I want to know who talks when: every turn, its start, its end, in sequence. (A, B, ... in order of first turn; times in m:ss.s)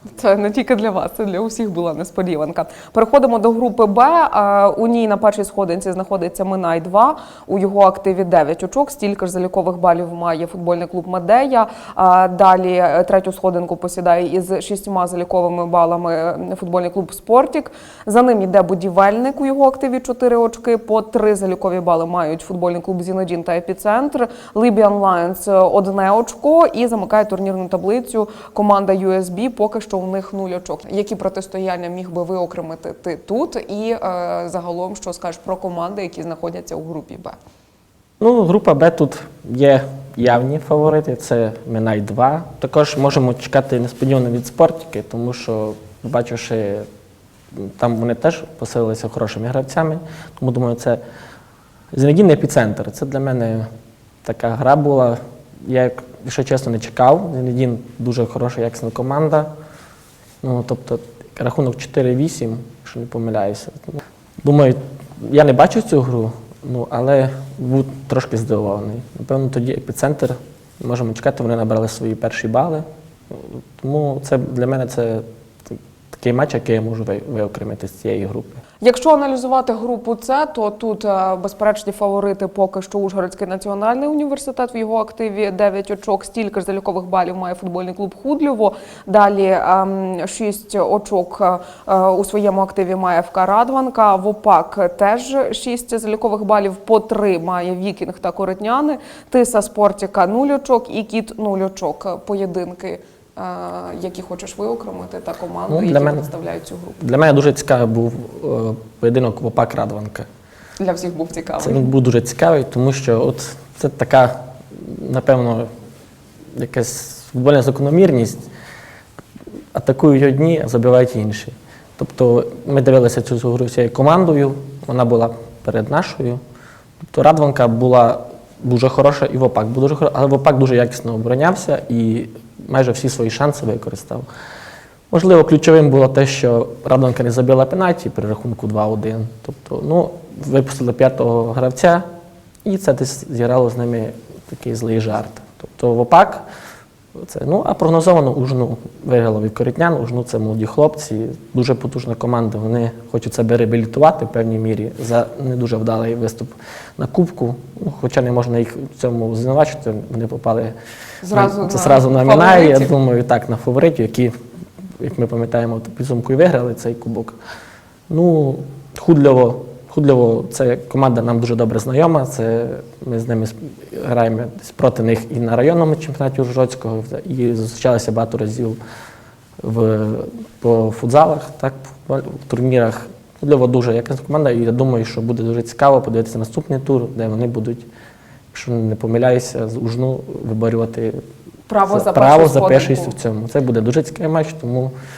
0:00.1-0:37.4 A
0:38.2-0:46.9 B
0:47.5-0:51.0 B
0:51.9-0:53.7 B
0:54.2-0:59.5 B
1:00.4-1:18.6 B
1:18.8-1:47.0 A
1:45.7-1:46.2 B
1:47.0-1:50.3 B
1:50.8-1:51.9 A
1:51.6-1:55.7 B
1:56.5-1:58.5 B
1:59.7-2:06.4 B
2:07.1-2:14.2 B
2:15.1-2:22.0 B
2:22.6-2:26.4 B
2:27.2-2:40.7 B
2:41.2-2:42.9 A
2:41.3-2:44.3 B
2:45.0-2:47.4 B
2:48.1-2:58.8 B
2:59.6-3:07.9 B
3:08.5-3:11.2 B
3:11.7-3:13.1 A
3:11.9-3:14.9 B